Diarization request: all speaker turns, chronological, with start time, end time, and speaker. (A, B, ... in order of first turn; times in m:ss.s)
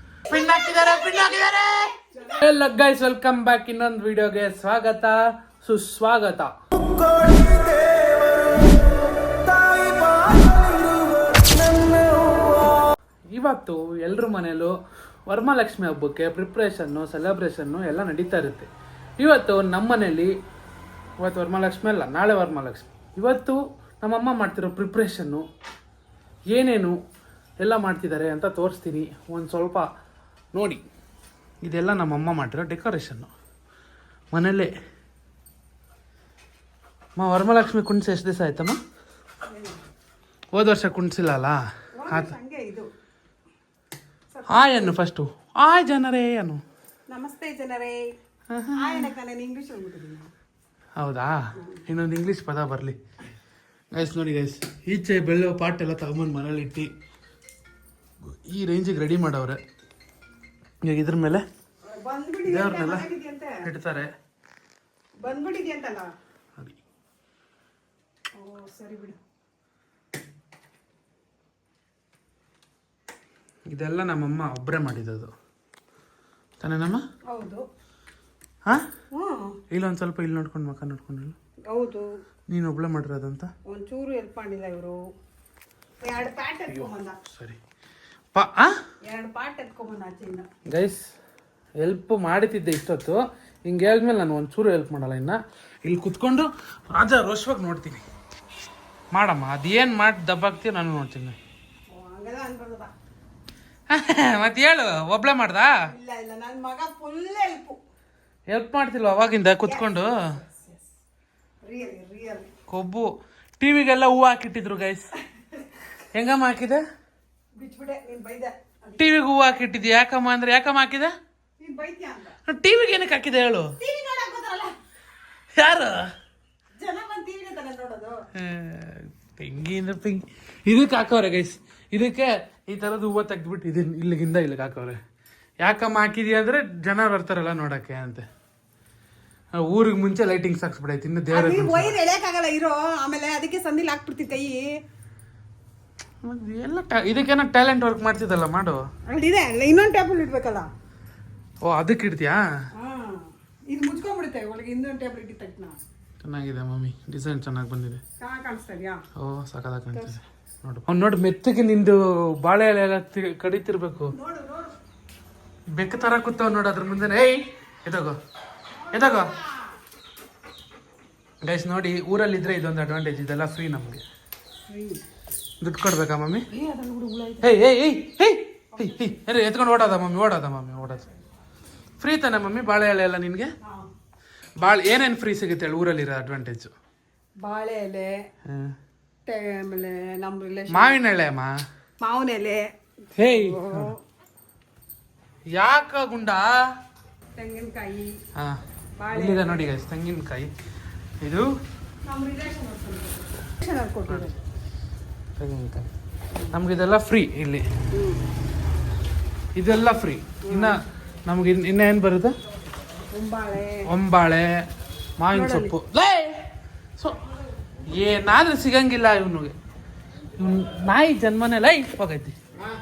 0:00.3-0:06.5 A
0:00.3-0:01.2 B
0:02.1-0:02.4 B
0:13.3-0:14.7 A
0:15.3-0:20.3 A
0:21.2-0:25.4 A
0:26.5-0:27.0 A
0:27.6-0:29.9 A
0:30.5-0:30.8 A
0:31.6-0:33.3 A
0:34.3-0:34.7 A
0:37.2-0:38.8 A
0:39.5-0:39.8 B
0:40.5-0:41.6 A
0:42.0-0:42.9 B
0:42.1-0:42.3 A
0:44.3-0:45.0 B
0:44.5-0:46.6 A
0:47.1-0:48.0 B
0:48.5-0:49.1 A
0:48.8-0:50.3 B
0:51.0-0:53.0 A
0:53.9-0:56.9 A
0:58.3-0:59.6 A
1:00.8-1:01.4 A
1:01.8-1:03.6 B
1:02.5-1:03.1 A
1:03.6-1:04.1 A
1:05.2-1:06.1 B
1:08.4-1:09.2 B
1:13.7-1:15.3 A
1:16.6-1:17.0 A
1:17.3-1:17.6 B
1:19.1-1:19.6 B
1:19.7-1:21.4 A
1:21.7-1:22.1 B
1:22.5-1:23.5 A
1:23.7-1:25.0 B
1:26.0-1:27.2 B
1:26.7-1:27.6 A
1:28.3-1:28.7 A
1:29.1-1:30.5 B
1:30.7-1:31.0 A
1:31.8-1:38.0 A
1:39.1-1:41.4 A
1:41.9-1:42.9 B
1:43.9-1:45.7 A
1:45.9-1:47.8 B
1:48.5-1:50.1 A
1:49.7-1:50.9 B
1:51.6-1:52.5 B
1:52.7-1:55.1 A
1:56.1-1:56.8 A
1:57.6-1:59.1 B
1:59.0-2:01.1 A
2:01.6-2:02.4 B
2:02.5-2:03.7 A
2:03.8-2:04.7 B
2:05.6-2:06.1 A
2:06.8-2:08.2 B
2:08.4-2:15.0 A
2:15.6-2:18.3 A
2:19.6-2:22.0 A
2:21.3-2:24.6 B
2:26.2-2:28.8 A
2:29.1-2:30.7 B
2:31.6-2:32.4 A
2:32.8-2:35.8 B
2:36.2-2:38.0 A
2:38.2-2:39.0 B
2:39.2-2:44.2 A
2:39.9-2:40.2 B
2:44.1-2:44.8 B
2:45.7-2:48.2 A
2:48.8-2:49.8 B
2:48.9-2:49.4 A
2:51.4-2:54.0 A
2:54.7-2:55.0 B
2:55.6-2:56.5 A
2:56.5-2:57.5 B
2:57.4-3:01.1 A
2:58.8-2:59.1 B
3:02.0-3:03.5 A
3:03.6-3:03.9 B
3:04.6-3:06.7 A
3:07.4-3:08.1 B
3:08.5-3:08.8 A
3:09.3-3:11.0 B
3:10.7-3:11.5 A
3:12.0-3:12.6 B
3:13.2-3:13.9 A
3:13.2-3:14.0 B
3:15.5-3:16.5 A
3:17.4-3:18.1 B
3:19.0-3:19.7 B
3:19.1-3:20.5 A
3:21.2-3:21.5 A
3:22.0-3:24.4 B
3:25.4-3:25.9 A
3:26.5-3:27.6 A
3:27.9-3:28.2 B
3:29.6-3:32.4 A
3:30.5-3:30.8 B
3:33.1-3:33.8 B
3:33.9-3:34.5 A
3:35.2-3:36.4 A
3:35.3-3:35.8 B
3:37.9-3:39.6 A
3:40.4-3:42.4 A